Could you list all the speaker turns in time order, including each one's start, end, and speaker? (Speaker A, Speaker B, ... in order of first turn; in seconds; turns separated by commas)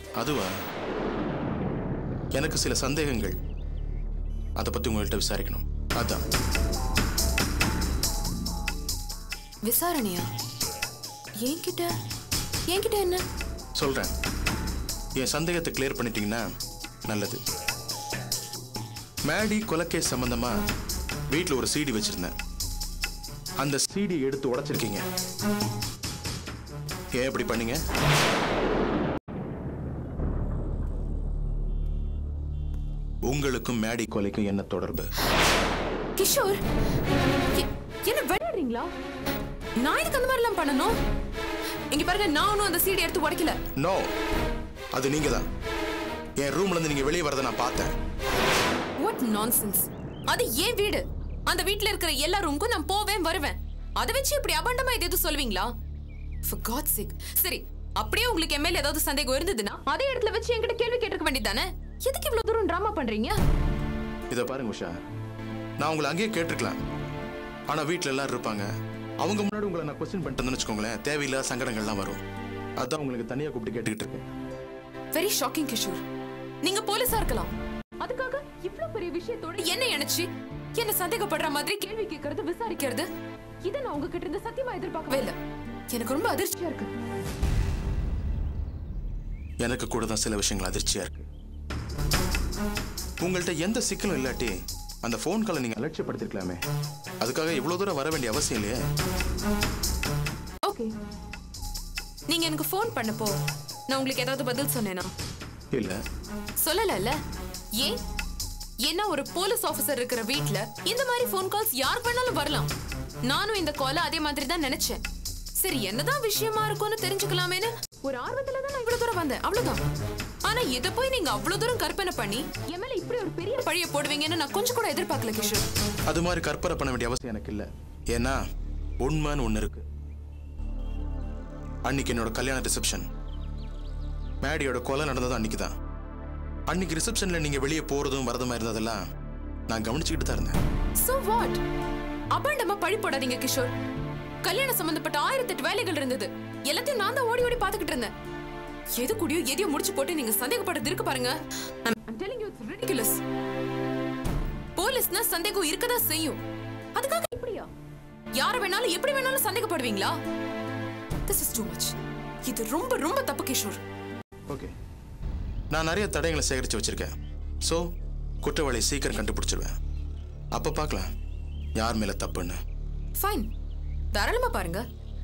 Speaker A: 0.2-0.5, Speaker A: 2.4-3.4, Speaker A: 4.6-6.2, Speaker B: 9.7-10.2, Speaker B: 11.4-11.9, Speaker B: 12.7-13.2, Speaker A: 13.8-14.1, Speaker A: 15.2-16.4, Speaker A: 17.1-17.4, Speaker A: 19.3-20.6, Speaker A: 21.3-22.3, Speaker A: 23.6-25.0, Speaker A: 27.2-27.8, Speaker A: 33.3-35.1, Speaker B: 36.2-36.6, Speaker B: 37.5-38.9, Speaker B: 39.8-40.9, Speaker B: 41.9-43.5, Speaker A: 43.8-44.1, Speaker A: 45.0-45.5, Speaker A: 46.4-47.9, Speaker B: 49.0-55.7, Speaker B: 56.5-63.4, Speaker A: 64.3-64.9, Speaker A: 65.8-66.8, Speaker A: 67.7-68.7, Speaker A: 69.2-72.2, Speaker A: 72.8-74.3, Speaker B: 75.1-76.0, Speaker B: 76.6-83.1, Speaker B: 83.7-85.3, Speaker B: 85.9-86.9, Speaker A: 89.6-91.3, Speaker A: 93.2-96.6, Speaker A: 97.2-98.8, Speaker B: 100.7-100.9, Speaker B: 102.3-103.3, Speaker B: 103.9-105.1, Speaker B: 106.6-107.2, Speaker B: 108.8-112.7, Speaker B: 113.3-115.0, Speaker B: 115.6-119.8, Speaker B: 120.5-125.6, Speaker A: 126.1-128.4, Speaker A: 129.0-129.8, Speaker A: 131.9-133.1, Speaker A: 134.4-135.7, Speaker A: 136.7-139.0, Speaker A: 139.7-140.6, Speaker B: 141.0-141.6, Speaker B: 142.3-143.7, Speaker B: 144.4-148.1, Speaker B: 149.0-153.2, Speaker B: 154.8-156.4, Speaker B: 157.0-157.7, Speaker B: 158.4-160.1, Speaker B: 161.3-161.9, Speaker B: 162.5-163.8, Speaker A: 164.5-164.7, Speaker A: 165.7-167.1, Speaker A: 168.4-169.8, Speaker A: 170.6-171.1, Speaker A: 171.8-172.6, Speaker B: 173.2-173.5, Speaker B: 174.1-174.8